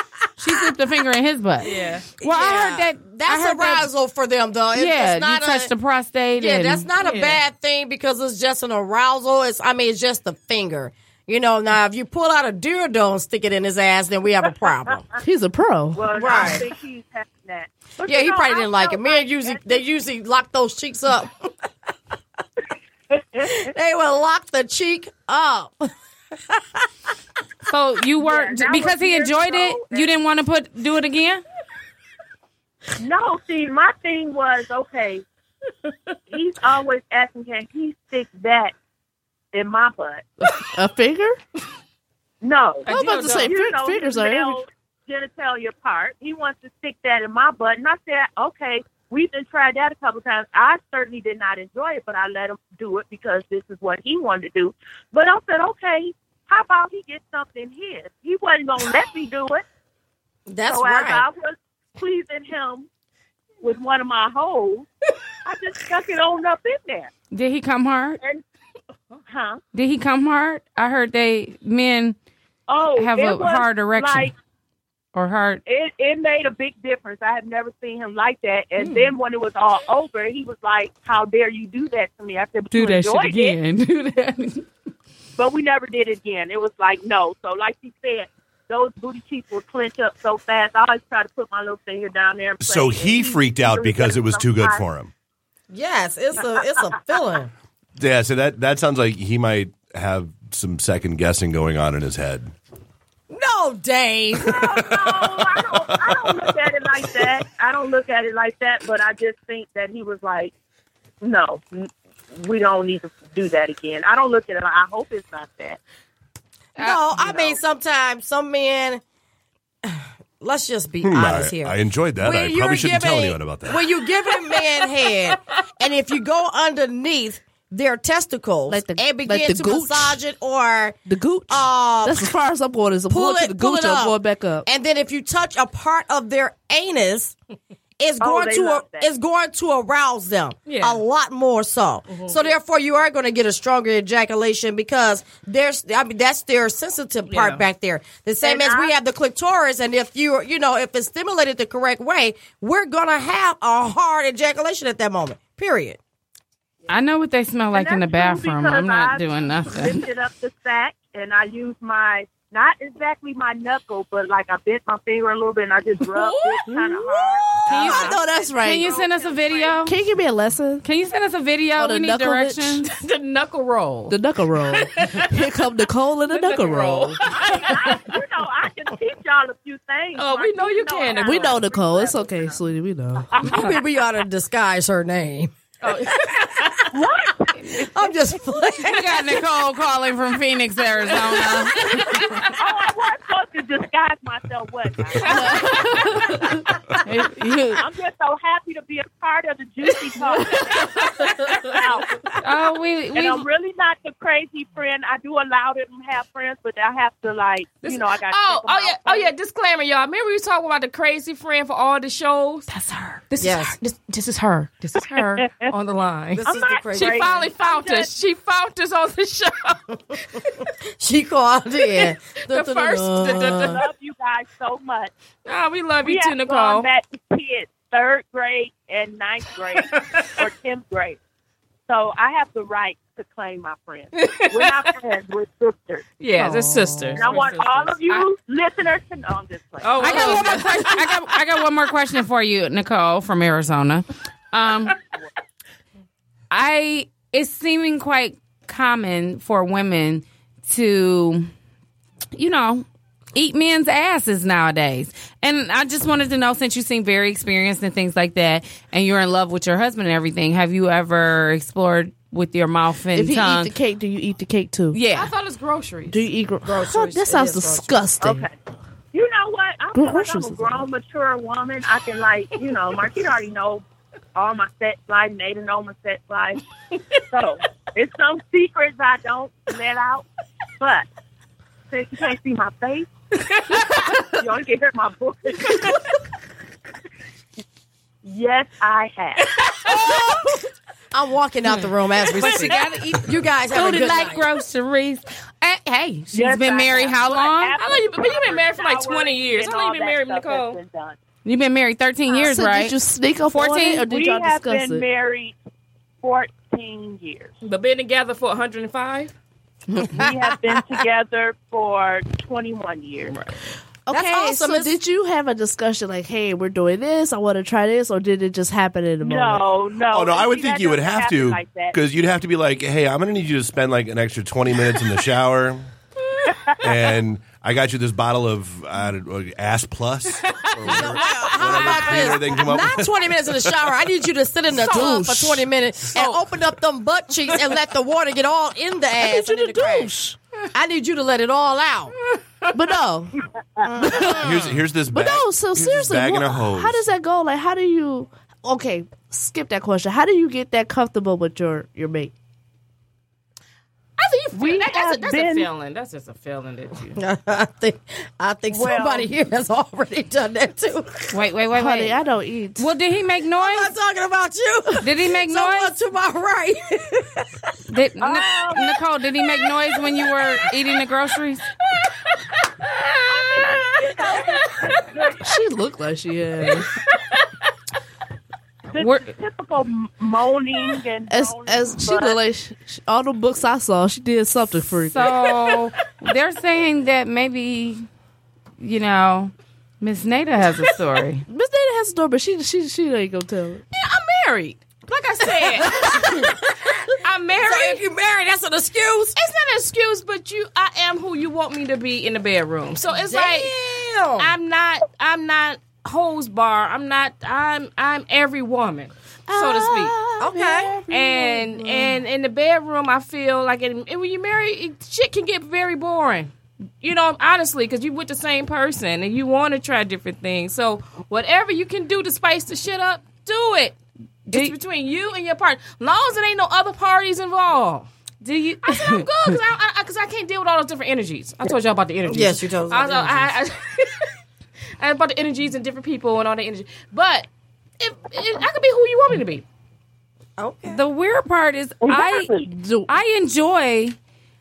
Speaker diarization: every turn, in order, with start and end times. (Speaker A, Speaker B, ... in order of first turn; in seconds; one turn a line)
Speaker A: 0.4-3.9
Speaker B: 1.6-2.1
Speaker C: 2.2-5.7
Speaker A: 4.7-6.9
Speaker C: 6.4-15.0
Speaker B: 7.0-7.4
Speaker D: 15.2-16.0
Speaker E: 15.9-19.9
Speaker C: 16.1-16.6
Speaker C: 18.1-21.5
Speaker E: 23.1-23.6
Speaker C: 23.5-25.9
Speaker C: 26.5-26.8
Speaker A: 27.7-31.4
Speaker E: 28.2-30.1
Speaker E: 33.0-35.2
Speaker E: 36.3-38.7
Speaker E: 39.5-40.2
Speaker D: 40.7-41.4
Speaker E: 42.4-59.6
Speaker B: 42.9-43.5
Speaker D: 42.9-44.6
Speaker C: 60.5-61.3
Speaker E: 60.7-62.9
Speaker E: 63.6-64.9
Speaker E: 65.5-67.1
Speaker A: 67.3-68.2
Speaker E: 69.3-69.6
Speaker A: 69.7-72.2
Speaker E: 72.7-74.3
Speaker A: 73.0-74.3
Speaker A: 75.2-75.6
Speaker E: 75.7-83.6
Speaker A: 82.7-84.7
Speaker E: 85.4-94.8
Speaker F: 92.6-95.1
Speaker C: 95.7-97.5
Speaker F: 98.0-102.5
Speaker C: 103.3-104.9
Speaker E: 104.5-110.5
Speaker F: 105.0-106.2
Speaker E: 111.2-115.8
Speaker A: 116.8-117.5
Speaker C: 116.8-119.0
Speaker C: 119.8-132.3
Speaker F: 121.0-123.9
Speaker D: 128.7-130.2
Speaker D: 131.1-134.7
Speaker C: 133.1-137.3
Speaker C: 138.0-156.0
Speaker E: 138.2-139.1
Speaker B: 140.7-141.0
Speaker B: 142.1-142.4
Speaker B: 147.3-147.6
Speaker E: 148.4-148.9
Speaker A: 156.9-160.0
Speaker E: 157.7-169.9
Speaker B: 166.1-166.7
Speaker D: 166.7-166.9
Speaker D: 167.7-168.9
Speaker A: 167.7-170.0
Speaker D: 169.8-170.8
Speaker A: 170.8-172.9
Speaker D: 171.8-172.8
Speaker B: 172.9-174.2
Speaker D: 174.1-177.2
Speaker B: 174.7-175.3
Speaker B: 176.3-178.1
Speaker E: 177.3-182.6
Speaker B: 180.2-181.6
Speaker D: 181.2-183.3
Speaker E: 183.3-183.8
Speaker C: 183.4-186.4
Speaker B: 185.8-186.9
Speaker E: 186.9-188.1
Speaker C: 187.8-189.3
Speaker A: 188.8-192.2
Speaker B: 191.8-192.5
Speaker E: 192.6-196.1
Speaker B: 195.3-196.1
Speaker D: 195.3-196.5
Speaker A: 197.0-197.8
Speaker E: 197.8-202.3
Speaker B: 200.7-201.3
Speaker A: 202.4-203.4
Speaker E: 203.1-209.3
Speaker B: 207.8-212.7
Speaker A: 212.7-213.2
Speaker B: 213.3-220.6
Speaker C: 213.4-213.8
Speaker E: 215.1-215.7
Speaker C: 216.4-217.5
Speaker E: 216.4-218.1
Speaker C: 221.0-223.8
Speaker B: 221.8-223.8
Speaker E: 223.3-225.1
Speaker B: 225.4-226.9
Speaker E: 226.0-231.2
Speaker B: 229.9-230.3
Speaker E: 231.9-236.1
Speaker B: 234.2-234.9
Speaker B: 236.2-238.3
Speaker D: 236.4-237.3
Speaker E: 237.2-240.4
Speaker B: 239.8-241.4
Speaker A: 240.0-245.0
Speaker A: 246.5-251.5
Speaker A: 252.3-263.7
Speaker D: 263.1-265.0
Speaker A: 264.9-265.3
Speaker B: 265.1-266.3
Speaker D: 266.1-268.5
Speaker C: 266.6-268.0
Speaker E: 268.2-268.5
Speaker E: 269.1-273.8
Speaker D: 269.9-270.9
Speaker E: 274.4-276.6
Speaker E: 277.3-280.2
Speaker E: 280.8-281.1
Speaker E: 281.9-283.1
Speaker B: 283.5-284.2
Speaker E: 284.2-285.9
Speaker B: 285.7-285.9
Speaker E: 288.2-289.5
Speaker B: 289.5-290.4
Speaker C: 291.1-294.4
Speaker B: 292.2-293.4
Speaker A: 292.4-292.8
Speaker A: 293.7-297.8
Speaker E: 296.3-301.2
Speaker B: 297.8-300.8
Speaker A: 301.4-302.9
Speaker D: 302.3-305.1
Speaker A: 303.5-304.1
Speaker E: 304.0-305.6
Speaker E: 306.2-307.6
Speaker B: 307.6-309.3
Speaker E: 310.1-313.4
Speaker C: 310.2-310.8
Speaker B: 313.3-313.6
Speaker D: 314.1-319.6
Speaker C: 314.1-314.9
Speaker E: 319.2-322.0
Speaker F: 320.1-325.9
Speaker F: 326.8-333.8
Speaker B: 330.4-332.6
Speaker C: 330.8-340.1
Speaker D: 334.7-335.7
Speaker D: 339.2-340.4
Speaker C: 340.7-342.1
Speaker B: 342.3-342.7
Speaker D: 342.7-343.4
Speaker C: 343.9-344.6
Speaker D: 343.9-352.3
Speaker F: 344.3-347.1
Speaker B: 354.2-357.1
Speaker E: 354.6-355.6
Speaker C: 357.1-361.4
Speaker E: 358.7-359.3
Speaker A: 361.3-362.2
Speaker D: 361.8-362.9
Speaker A: 362.8-363.9
Speaker C: 363.6-367.5
Speaker A: 365.0-365.9
Speaker A: 367.9-371.6
Speaker E: 368.2-369.0
Speaker B: 372.3-375.1
Speaker E: 373.3-375.5
Speaker D: 375.4-376.9
Speaker B: 376.7-377.5
Speaker E: 378.9-382.4
Speaker A: 379.0-379.3
Speaker D: 381.3-385.3
Speaker A: 385.1-388.1
Speaker A: 388.8-391.4
Speaker D: 391.5-393.8
Speaker B: 393.9-396.5
Speaker C: 396.1-396.9
Speaker B: 397.2-398.0
Speaker C: 397.6-399.4
Speaker B: 399.4-403.8
Speaker C: 403.2-404.5
Speaker B: 404.4-410.2
Speaker D: 409.5-412.2
Speaker C: 410.4-411.0
Speaker B: 411.1-424.0
Speaker A: 424.5-424.7
Speaker B: 424.5-428.1
Speaker A: 428.4-429.3
Speaker B: 428.8-434.3
Speaker C: 432.3-433.5
Speaker B: 435.0-437.5
Speaker B: 438.0-439.6
Speaker C: 440.6-441.0
Speaker A: 440.9-442.5
Speaker E: 442.1-442.6
Speaker D: 442.6-443.1
Speaker A: 443.1-444.2